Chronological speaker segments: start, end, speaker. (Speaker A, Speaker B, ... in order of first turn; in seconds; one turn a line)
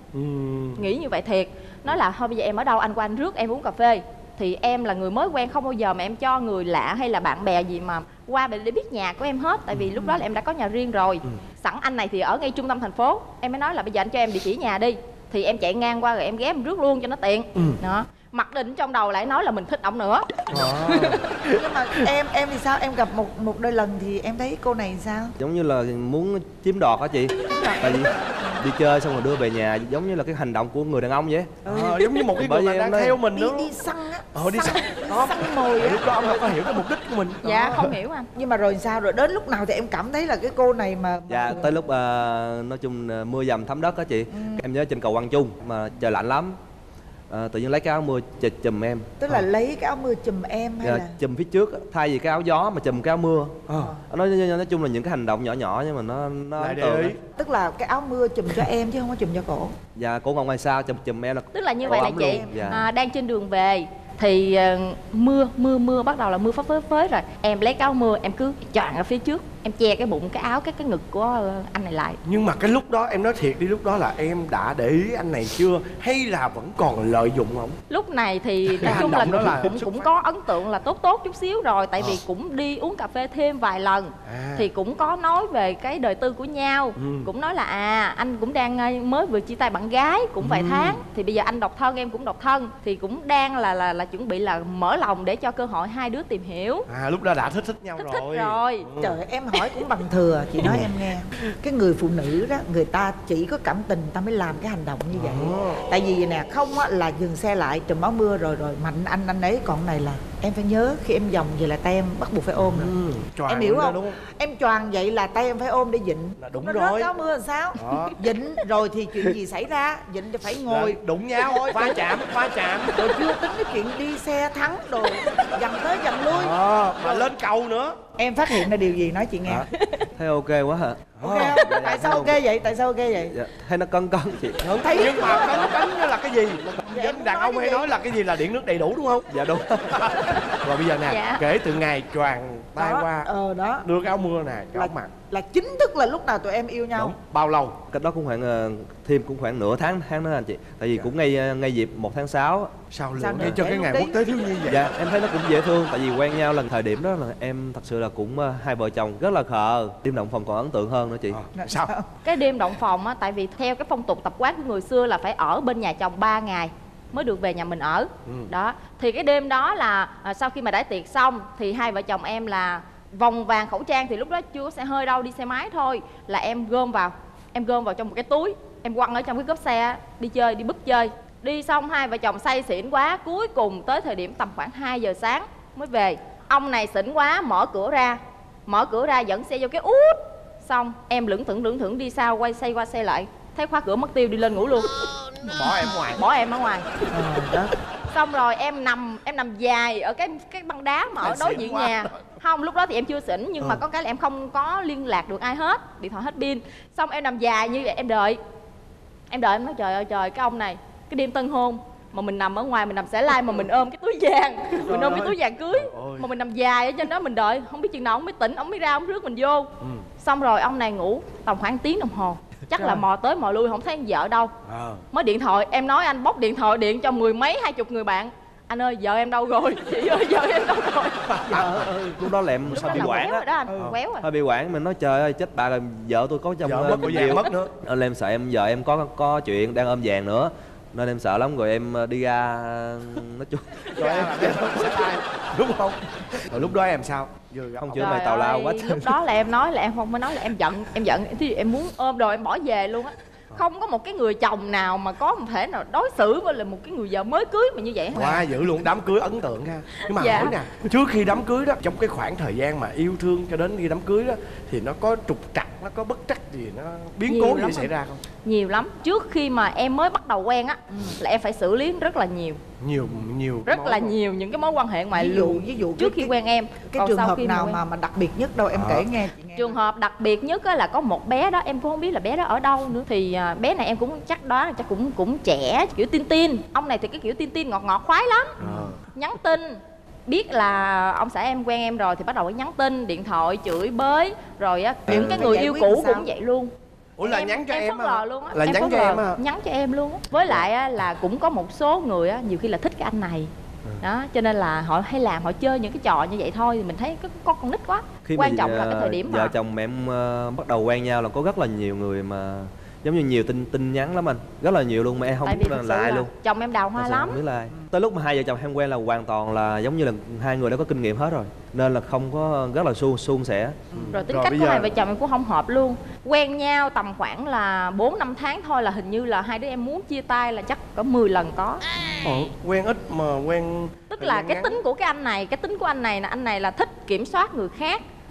Speaker A: 0.1-0.9
Speaker B: 0.8-21.2
Speaker A: 20.5-21.6
Speaker C: 21.5-25.4
Speaker D: 25.4-31.6
Speaker C: 27.6-28.5
Speaker C: 31.6-32.3
Speaker A: 31.6-33.7
Speaker D: 32.4-33.2
Speaker C: 33.3-36.6
Speaker A: 34.3-37.9
Speaker B: 37.4-38.3
Speaker C: 38.3-41.8
Speaker D: 41.3-46.6
Speaker C: 44.3-44.6
Speaker D: 47.3-49.1
Speaker C: 49.2-51.1
Speaker D: 50.8-57.1
Speaker A: 53.7-54.0
Speaker A: 56.6-57.2
Speaker C: 57.4-59.7
Speaker D: 60.0-62.9
Speaker B: 61.5-72.2
Speaker C: 61.9-62.9
Speaker A: 72.2-77.8
Speaker B: 77.9-96.9
Speaker A: 78.7-80.1
Speaker A: 84.2-84.7
Speaker A: 87.0-87.3
Speaker A: 90.4-91.0
Speaker A: 96.9-99.2
Speaker B: 98.0-98.9
Speaker C: 99.0-112.9
Speaker A: 100.6-100.9
Speaker A: 105.1-105.8
Speaker A: 112.6-114.2
Speaker C: 113.5-122.1
Speaker A: 116.4-117.1
Speaker A: 117.8-118.2
Speaker A: 120.6-123.1
Speaker C: 122.9-127.3
Speaker A: 126.3-128.0
Speaker C: 128.2-129.7
Speaker B: 129.7-130.1
Speaker D: 130.1-132.4
Speaker A: 131.2-131.6
Speaker C: 131.2-133.4
Speaker D: 133.3-134.7
Speaker A: 134.6-139.3
Speaker B: 134.9-135.2
Speaker C: 135.0-135.7
Speaker C: 136.9-138.0
Speaker D: 139.3-140.4
Speaker A: 139.9-143.3
Speaker B: 141.1-141.4
Speaker C: 142.8-143.9
Speaker A: 143.8-145.1
Speaker C: 144.8-147.1
Speaker A: 146.9-147.8
Speaker D: 147.9-152.7
Speaker A: 152.9-154.8
Speaker C: 153.2-154.2
Speaker D: 154.7-161.4
Speaker A: 161.3-161.9
Speaker C: 161.6-162.1
Speaker B: 162.2-195.1
Speaker A: 168.2-168.5
Speaker A: 195.4-196.2
Speaker B: 196.1-196.8
Speaker C: 197.1-197.7
Speaker B: 198.1-208.4
Speaker A: 201.2-202.2
Speaker B: 209.3-224.5
Speaker A: 214.8-216.3
Speaker C: 222.8-223.1
Speaker A: 224.7-225.1
Speaker B: 225.1-231.7
Speaker A: 231.3-231.8
Speaker C: 231.5-231.9
Speaker D: 231.5-233.4
Speaker B: 232.7-234.2
Speaker C: 233.7-233.9
Speaker D: 234.2-244.7
Speaker A: 236.6-237.7
Speaker A: 243.9-248.2
Speaker D: 247.8-249.1
Speaker B: 248.0-258.5
Speaker A: 258.1-268.2
Speaker B: 260.0-260.6
Speaker B: 267.3-272.6
Speaker A: 272.8-274.2
Speaker B: 273.6-277.8
Speaker C: 275.1-279.8
Speaker A: 278.7-279.1
Speaker B: 279.6-288.6
Speaker A: 288.6-289.0
Speaker B: 289.1-309.5
Speaker C: 295.1-296.3
Speaker A: 295.1-295.4
Speaker A: 297.2-299.4
Speaker D: 308.2-316.3
Speaker B: 315.4-317.4
Speaker D: 316.9-323.8
Speaker A: 323.9-324.9
Speaker B: 324.1-331.8
Speaker A: 332.2-334.8
Speaker B: 334.1-338.0